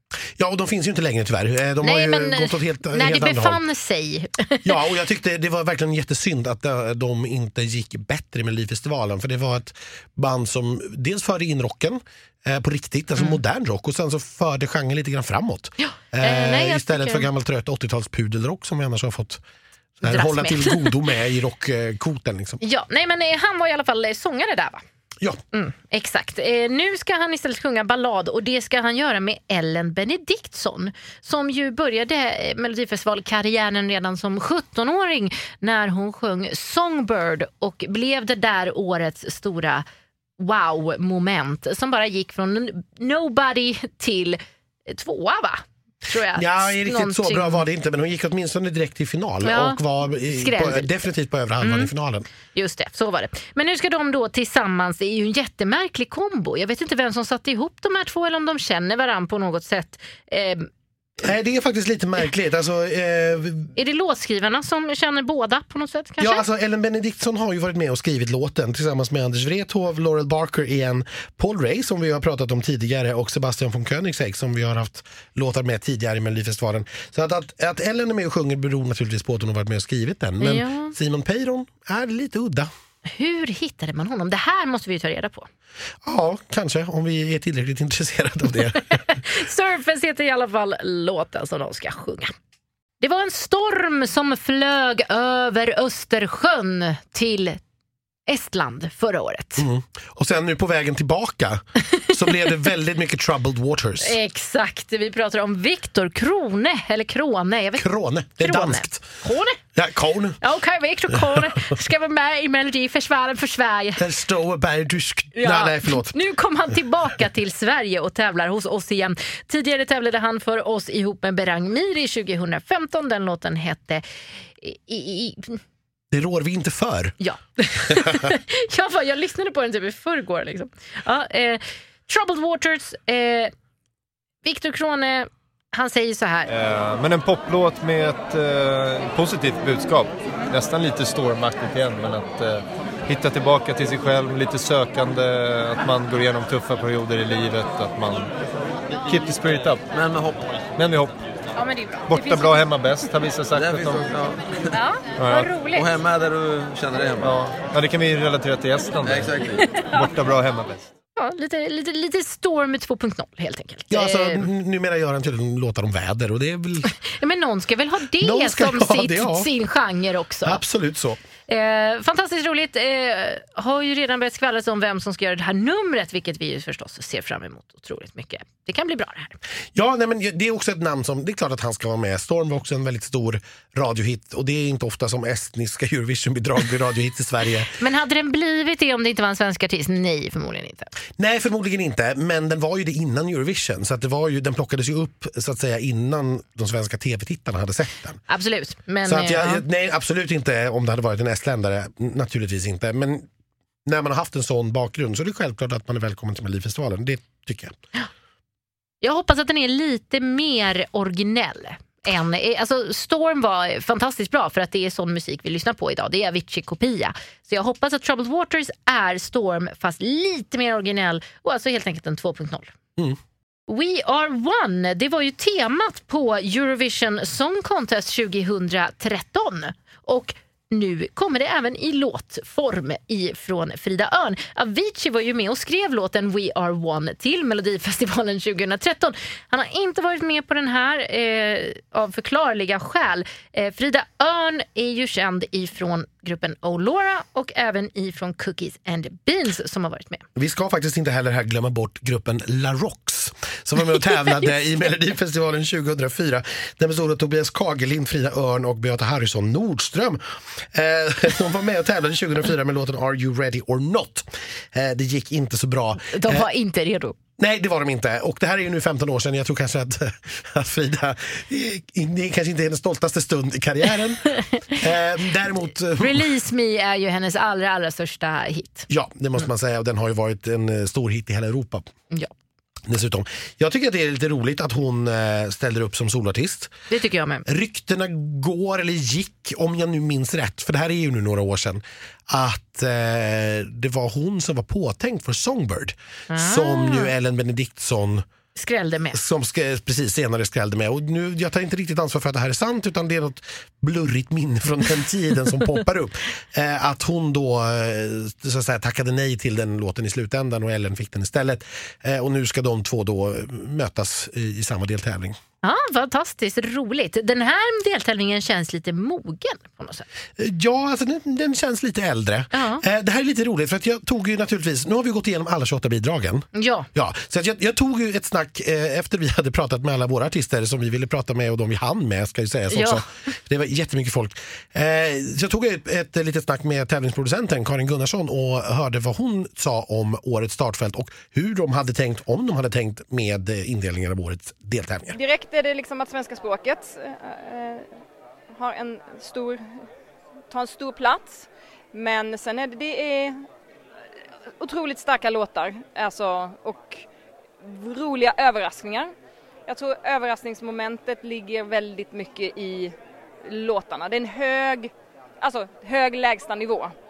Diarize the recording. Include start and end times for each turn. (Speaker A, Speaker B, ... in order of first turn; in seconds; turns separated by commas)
Speaker A: 0.4-3.6, Speaker B: 1.8-4.7, Speaker A: 4.6-19.4, Speaker B: 15.8-17.3, Speaker A: 20.0-22.6, Speaker B: 20.0-20.9, Speaker B: 22.6-24.8, Speaker B: 25.5-39.8, Speaker B: 40.4-47.6, Speaker A: 46.3-52.2, Speaker B: 49.4-50.9, Speaker B: 51.6-51.9, Speaker B: 52.5-60.7, Speaker A: 61.2-63.7, Speaker B: 63.7-66.4, Speaker A: 66.2-82.7, Speaker B: 80.4-80.9, Speaker B: 83.1-85.5, Speaker A: 86.0-89.0, Speaker B: 88.9-92.3, Speaker B: 93.0-97.6, Speaker B: 98.3-99.7, Speaker A: 99.6-104.2, Speaker B: 104.0-107.8, Speaker A: 107.8-109.0, Speaker B: 108.4-109.6, Speaker A: 109.7-110.4, Speaker B: 110.4-114.0, Speaker A: 111.1-111.7, Speaker A: 114.0-116.2, Speaker B: 115.3-124.0, Speaker B: 124.6-125.6, Speaker A: 126.1-127.2, Speaker B: 127.2-133.5, Speaker A: 127.9-128.3, Speaker B: 134.4-136.5, Speaker C: 136.5-148.3, Speaker C: 149.0-149.8, Speaker D: 149.9-150.5, Speaker C: 150.8-151.2, Speaker B: 151.6-152.6, Speaker C: 152.1-154.1, Speaker D: 153.6-154.4, Speaker B: 154.7-155.9, Speaker C: 155.2-155.5, Speaker D: 155.6-157.3, Speaker C: 157.2-160.9, Speaker D: 159.0-159.6, Speaker B: 161.2-164.5, Speaker A: 163.9-166.9, Speaker B: 167.0-170.6, Speaker A: 168.2-169.5, Speaker A: 170.4-171.2, Speaker B: 171.5-179.4, Speaker A: 179.7-187.7, Speaker B: 187.8-190.9, Speaker A: 191.2-198.2, Speaker B: 198.3-199.6, Speaker A: 199.0-203.3, Speaker A: 203.8-207.8, Speaker B: 209.0-222.7, Speaker B: 223.7-250.2, Speaker A: 250.3-266.5, Speaker B: 266.0-267.2, Speaker A: 267.4-276.3, Speaker B: 276.0-278.9, Speaker A: 278.9-281.9, Speaker A: 282.9-286.7, Speaker B: 286.9-287.4, Speaker A: 287.4-298.2, Speaker B: 296.3-297.1, Speaker B: 298.5-299.2, Speaker A: 299.1-315.4, Speaker B: 315.6-320.1, Speaker A: 320.4-345.2, Speaker B: 322.5-322.8, Speaker B: 326.5-326.9, Speaker B: 332.7-333.0, Speaker E: 345.1-347.9, Speaker E: 348.5-349.6, Speaker E: 350.5-353.4, Speaker E: 354.6-357.0, Speaker E: 357.6-359.1, Speaker E: 359.7-366.9